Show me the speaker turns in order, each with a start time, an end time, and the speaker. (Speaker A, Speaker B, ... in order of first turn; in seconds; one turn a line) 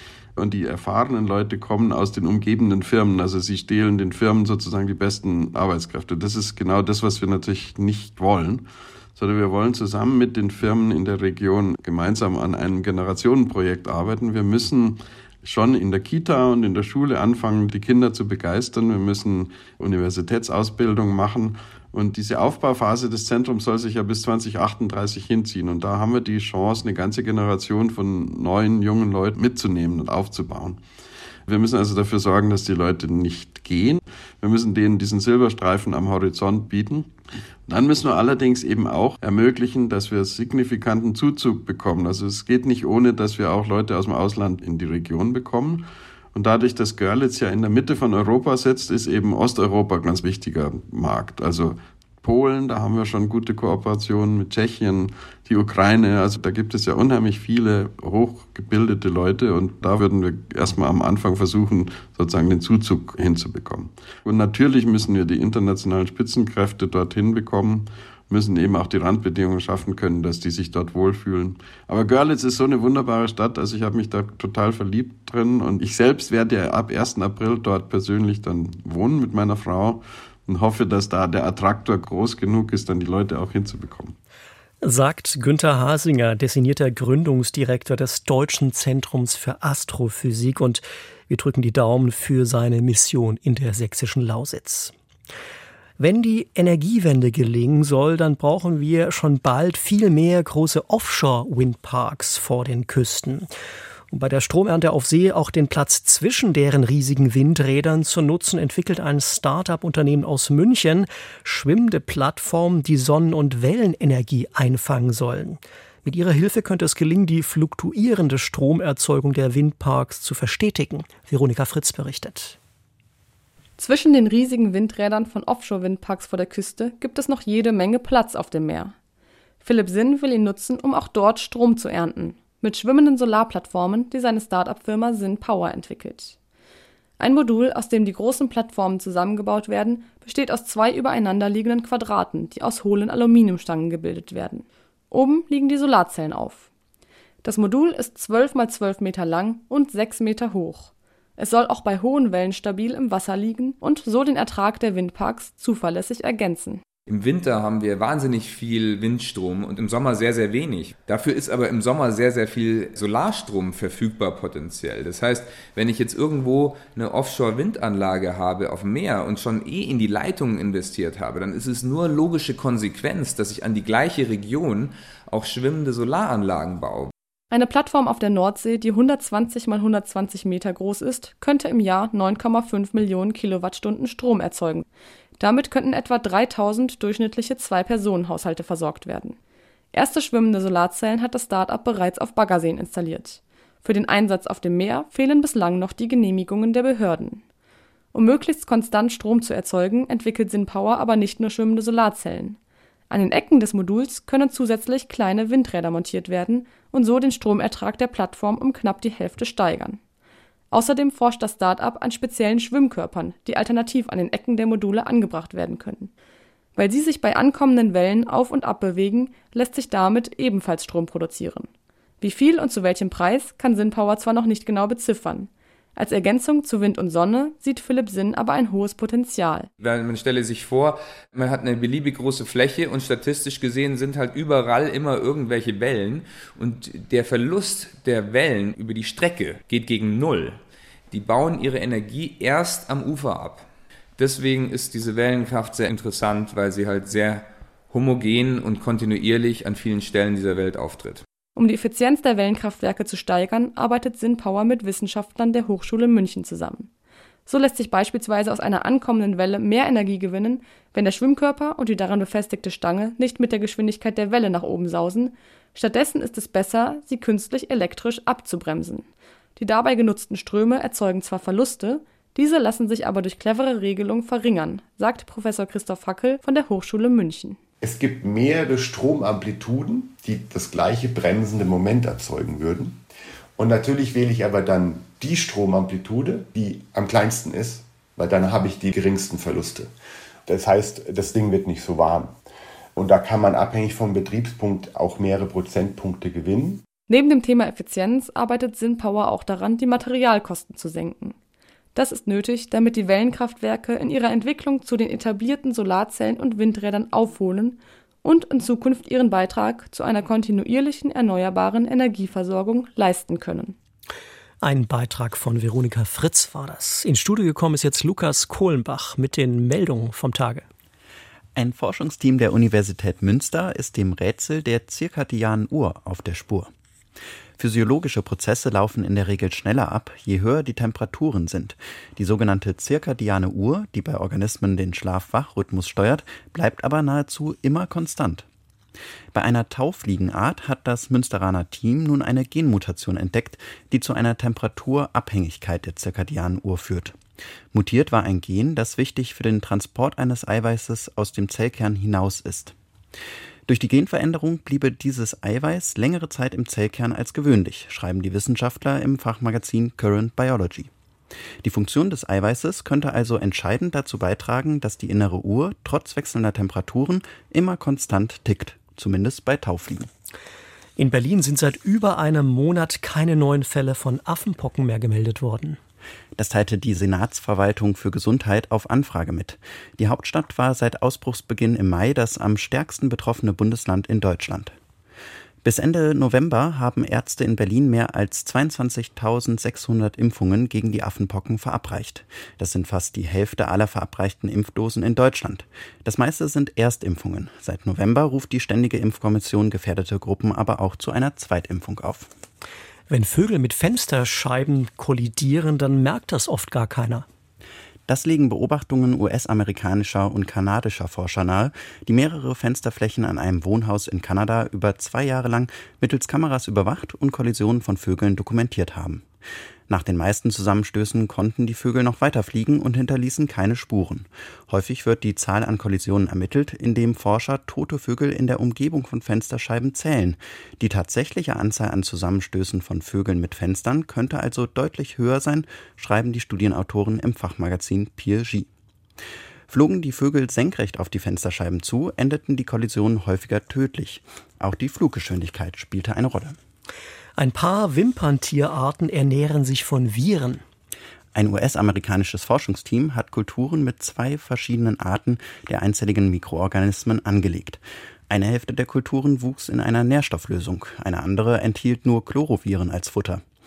Speaker A: 0.3-30.8
Speaker A: 31.5-37.1
Speaker A: 37.7-84.1
Speaker B: 84.8-94.9
Speaker B: 96.0-103.5
Speaker B: 104.1-122.6
Speaker C: 123.8-128.9
Speaker C: 129.6-136.3
Speaker C: 137.2-146.7
Speaker C: 147.4-156.8
Speaker D: 157.1-177.1
Speaker C: 177.5-184.8
Speaker C: 185.4-189.4
Speaker C: 189.9-197.4
Speaker C: 198.1-202.6
Speaker C: 203.1-210.0
Speaker C: 210.7-216.1
Speaker C: 216.8-221.7
Speaker C: 222.2-229.7
Speaker D: 229.8-243.7
Speaker D: 244.2-251.2
Speaker C: 251.6-256.9
Speaker C: 257.5-277.6
Speaker E: 277.8-283.0
Speaker E: 283.6-289.9
Speaker E: 290.5-292.4
Speaker E: 292.9-296.8
Speaker C: 297.1-301.4
Speaker C: 301.9-313.8
Speaker B: 314.6-320.6
Speaker F: 321.5-326.7
Speaker F: 327.6-338.4
Speaker F: 339.3-347.1
Speaker F: 347.7-352.7
Speaker F: 353.7-360.9
Speaker F: 361.6-370.1
Speaker B: 371.0-375.8
Speaker F: 376.4-384.8
Speaker F: 385.6-402.3
Speaker B: 403.1-407.2
Speaker F: 408.1-419.2
Speaker F: 419.9-438.7
Speaker F: 439.7-446.6
Speaker B: 447.4-450.6
Speaker F: 451.3-463.4